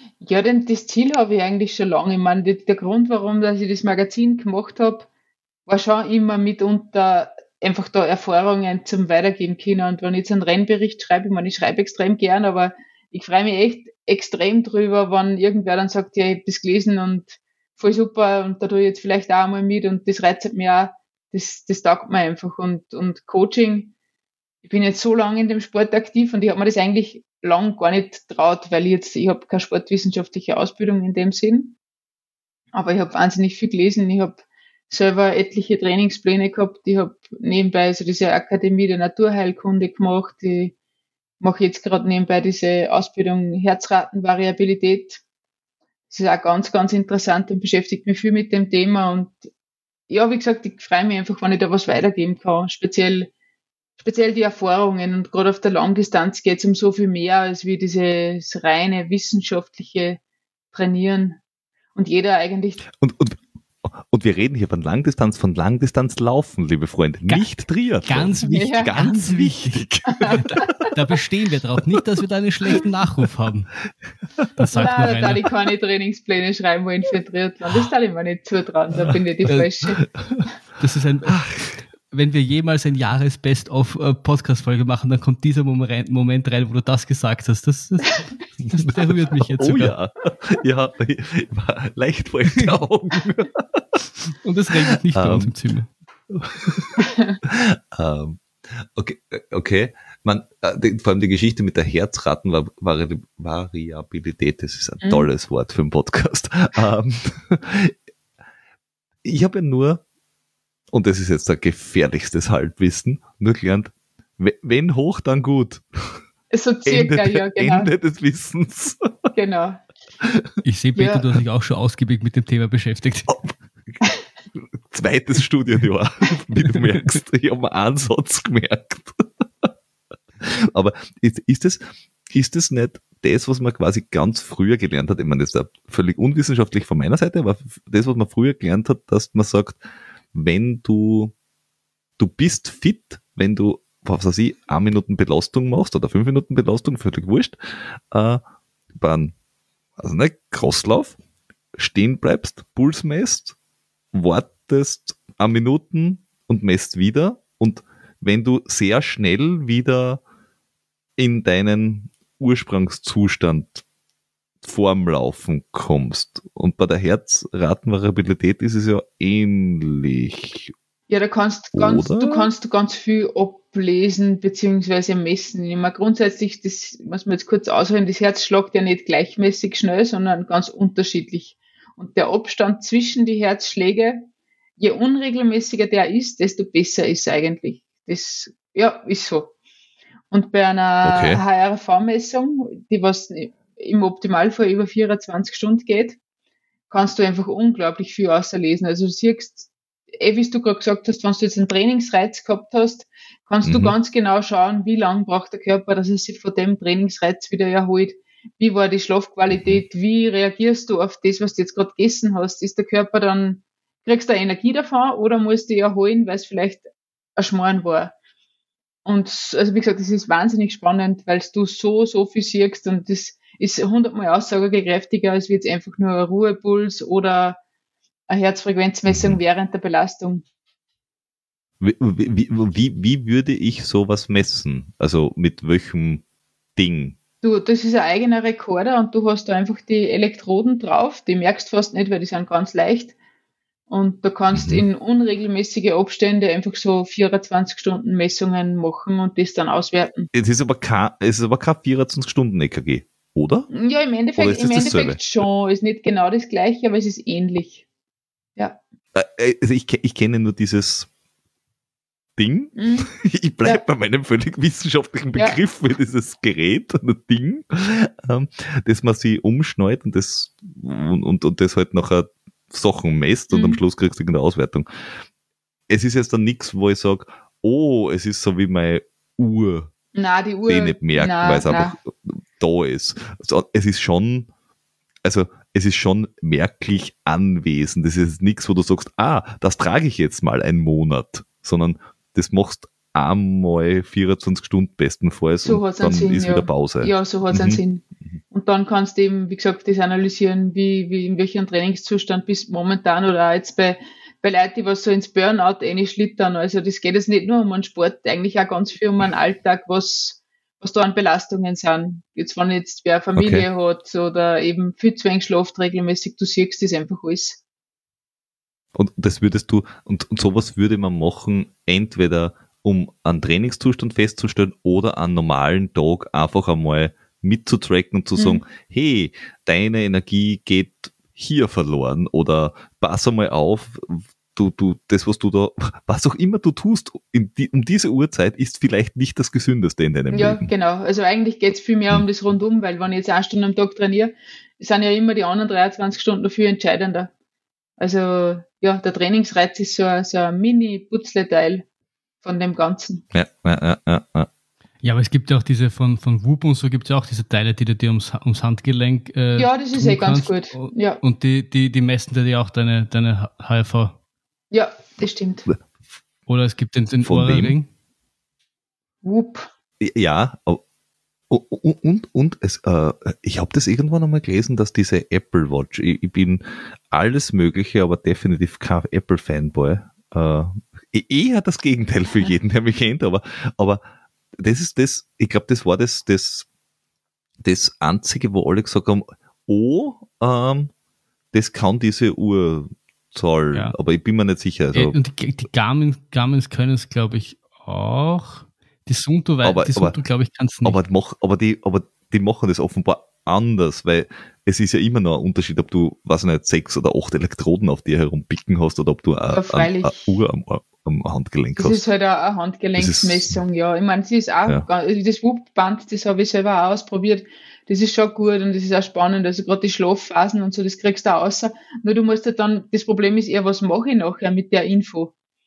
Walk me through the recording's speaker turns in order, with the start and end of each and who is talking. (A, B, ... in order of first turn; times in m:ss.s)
0:00.2-0:05.1 A
0:05.7-0:23.9 A
0:24.6-0:31.8 A
0:32.7-0:40.7 A
0:41.4-0:45.2 A
0:46.1-0:49.5 A
0:50.1-0:53.3 A
0:54.0-1:00.2 A
1:00.7-1:01.4 A
1:01.9-1:02.8 A
1:02.9-1:10.8 B
1:08.0-1:09.8 C
1:08.4-1:08.9 A
1:10.1-1:10.9 A
1:10.3-1:13.7 C
1:14.6-1:15.4 C
1:14.7-1:20.0 A
1:20.0-1:20.4 B
1:20.8-1:21.5 C
1:21.4-1:21.7 B
1:22.0-1:29.9 C
1:28.6-1:34.0 B
1:34.3-1:35.9 C
1:35.1-1:35.5 B
1:36.3-1:47.9 B
1:37.0-1:37.4 A
1:45.0-1:45.3 A
1:49.2-1:50.0 B
1:50.9-1:56.2 B
1:56.5-1:57.9 A
1:56.8-1:59.1 B
1:59.3-1:59.8 A
2:00.2-2:00.5 B
2:00.6-2:03.3 C
2:01.0-2:01.2 A
2:03.3-2:03.5 B
2:04.5-2:09.7 B
2:10.4-2:19.8 B
2:20.3-2:21.3 B
2:22.2-2:28.4 B
2:28.9-2:29.3 B
2:30.0-2:31.2 B
2:31.8-2:33.6 B
2:34.1-2:40.2 B
2:41.2-2:43.8 B
2:44.6-2:50.7 B
2:51.1-3:04.3 A
2:51.7-2:52.5 B
3:04.8-3:09.5 A
3:10.3-3:16.2 A
3:11.0-3:11.4 B
3:16.9-3:38.1 A
3:23.6-3:23.9 B
3:39.0-3:47.6 A
3:48.3-3:50.4 A
3:49.1-3:49.4 B
3:51.8-3:56.2 B
3:56.8-3:57.2 B
3:57.4-4:03.1 A
4:03.9-4:10.3 A
4:04.5-4:04.8 B
4:10.3-4:13.7 B
4:13.7-4:17.8 A
4:14.4-4:15.2 B
4:19.1-4:21.1 B
4:22.4-4:34.8 B
4:22.8-4:23.1 A
4:33.5-4:33.8 A
4:35.9-4:39.9 B
4:40.1-4:42.0 A
4:40.7-4:44.5 B
4:45.2-4:57.8 B
4:55.6-5:17.6 A
5:13.4-5:13.6 B
5:18.9-5:40.7 B
5:28.4-5:28.6 A
5:40.3-5:47.3 A
5:48.0-5:51.8 A
5:52.4-5:53.2 A
5:53.3-5:54.5 B
5:55.0-6:04.1 C
5:59.5-6:01.2 A
6:04.7-6:05.7 A
6:06.5-6:07.9 C
6:07.2-6:07.7 B
6:09.2-6:09.7 A
6:10.0-6:10.8 B
6:11.5-6:24.0 B
6:24.6-6:26.6 B
6:27.6-6:30.9 B
6:31.5-6:35.2 B
6:34.9-6:41.0 C
6:39.6-6:40.2 B
6:40.8-6:52.0 B
6:49.5-6:50.4 A
6:51.8-7:05.3 A
6:53.0-6:53.5 B